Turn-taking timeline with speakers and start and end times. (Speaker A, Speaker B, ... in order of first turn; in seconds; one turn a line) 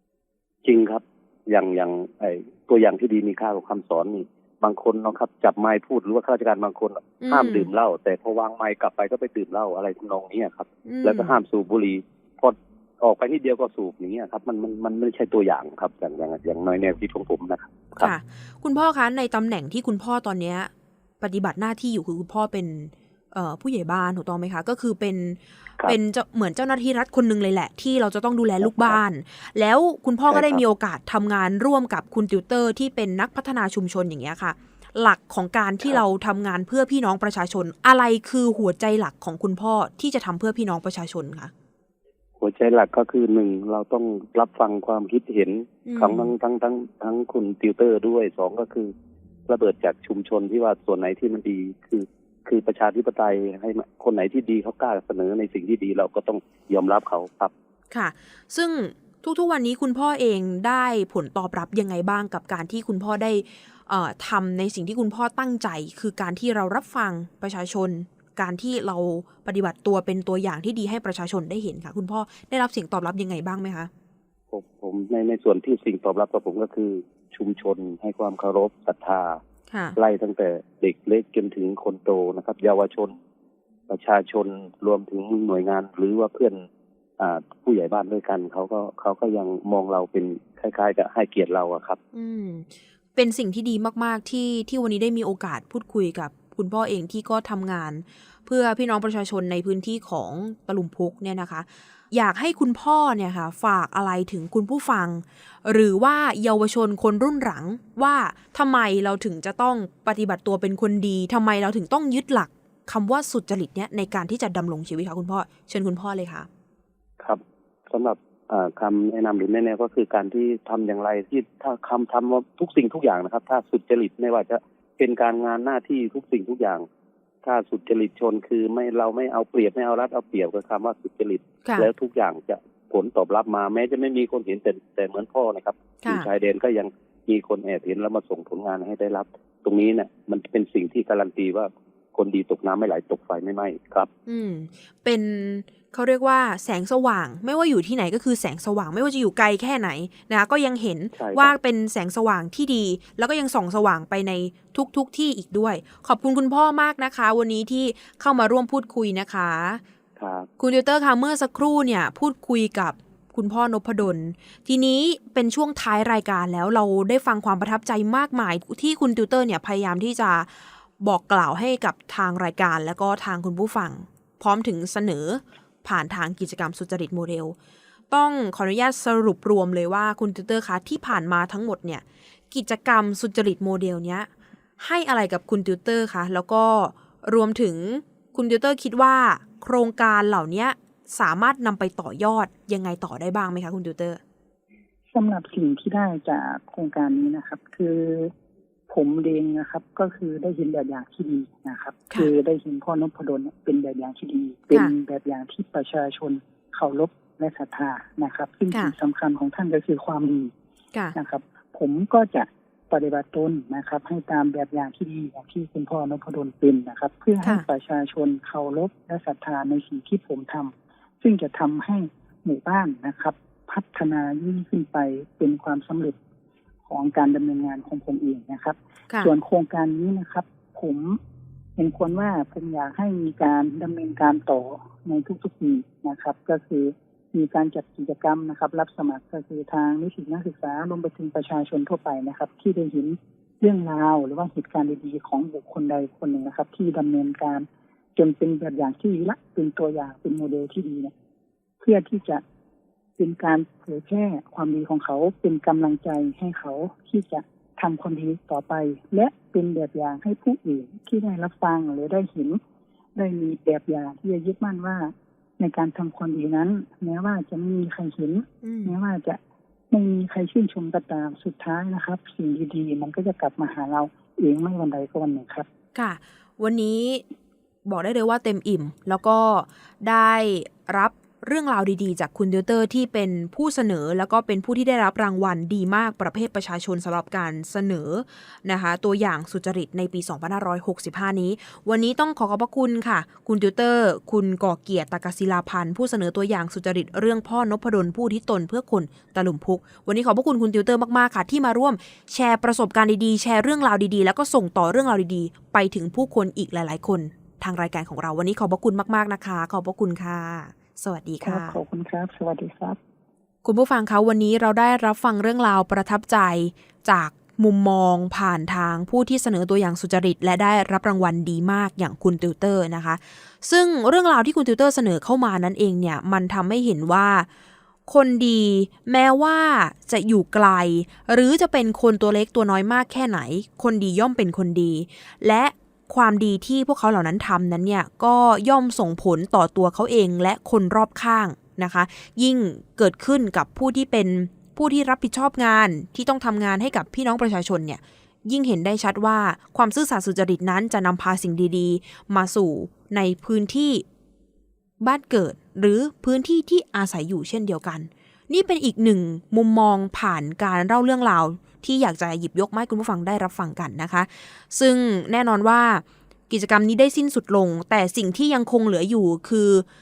Speaker A: 0.6-18.1
Speaker B: 7.2-7.7
Speaker B: 10.9-11.4
Speaker B: 18.0-41.5
Speaker A: 28.6-29.0
Speaker A: 30.3-30.6
Speaker A: 42.4-48.9
Speaker B: 45.9-46.3
Speaker A: 49.5-57.5
Speaker B: 57.9-73.9
Speaker A: 74.5-79.4
Speaker B: 79.7-80.0
Speaker A: 80.0-83.1
Speaker A: 83.9-86.6
Speaker A: 87.2-92.0
Speaker B: 92.1-116.5
Speaker A: 117.2-126.8
Speaker A: 127.4-144.1
Speaker B: 144.3-159.8
Speaker A: 151.1-151.5
Speaker A: 160.2-160.5
Speaker B: 160.6-177.6
Speaker B: 178.1-184.3
Speaker B: 184.8-194.2
Speaker C: 195.1-198.3
Speaker C: 198.9-210.5
Speaker C: 211.1-226.2
Speaker C: 226.9-231.2
Speaker C: 231.8-251.1
Speaker C: 251.8-252.4
Speaker C: 253.2-262.6
Speaker C: 263.1-269.4
Speaker B: 268.6-268.9
Speaker C: 269.9-275.7
Speaker B: 275.9-277.2
Speaker B: 277.9-311.8
Speaker C: 311.4-313.0
Speaker B: 313.6-327.5
Speaker B: 328.1-354.1
Speaker B: 355.0-369.9